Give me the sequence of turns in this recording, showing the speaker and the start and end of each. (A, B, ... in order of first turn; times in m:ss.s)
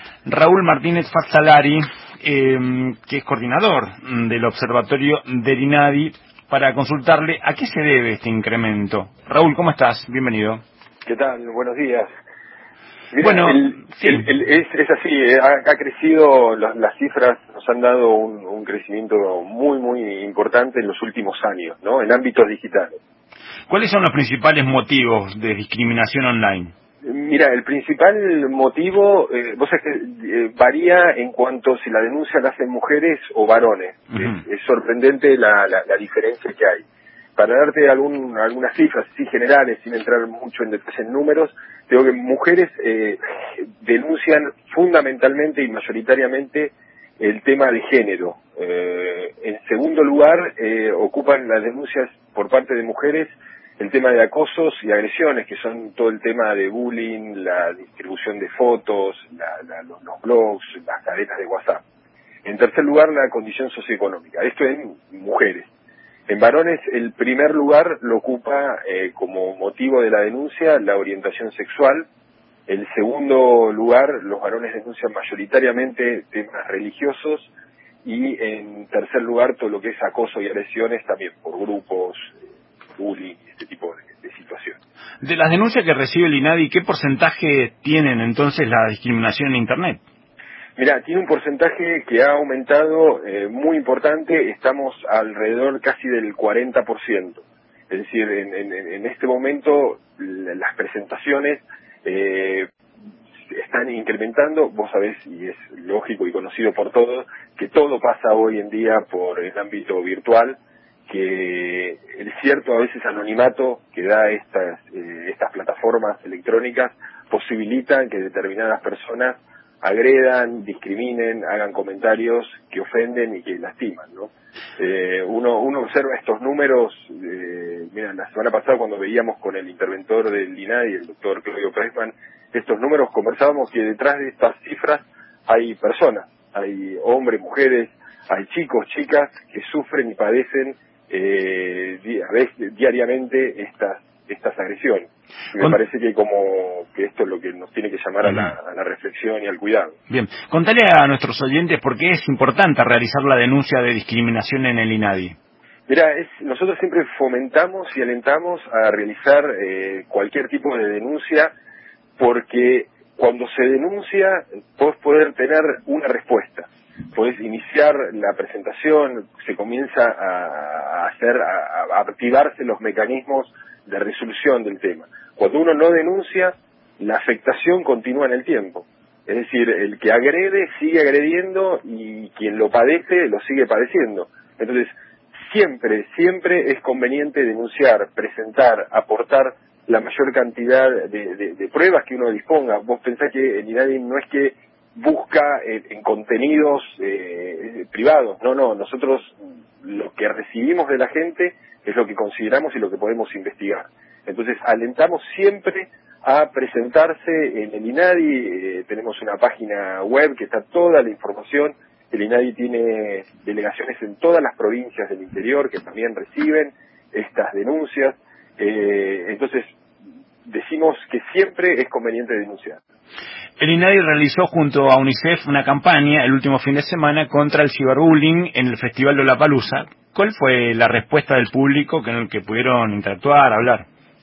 0:00.3-0:10.6 A
0:11.1-0:12.1 B
0:13.1-0:23.0 B
0:13.2-0:14.3 A
0:23.7-0:26.7 A
0:27.0-0:36.8 B
0:37.4-1:01.8 B
1:02.4-1:05.7 B
1:06.3-1:12.1 B
1:12.7-1:17.5 B
1:18.0-1:22.2 B
1:23.0-1:24.8 B
1:25.2-1:30.0 A
1:30.8-1:42.7 B
1:43.5-2:30.0 B
2:28.2-2:28.5 A
2:30.1-2:35.4 A
2:35.9-2:41.5 B
2:42.2-3:04.9 B
3:05.5-3:39.7 B
3:40.5-3:42.8 B
3:43.6-3:53.8 A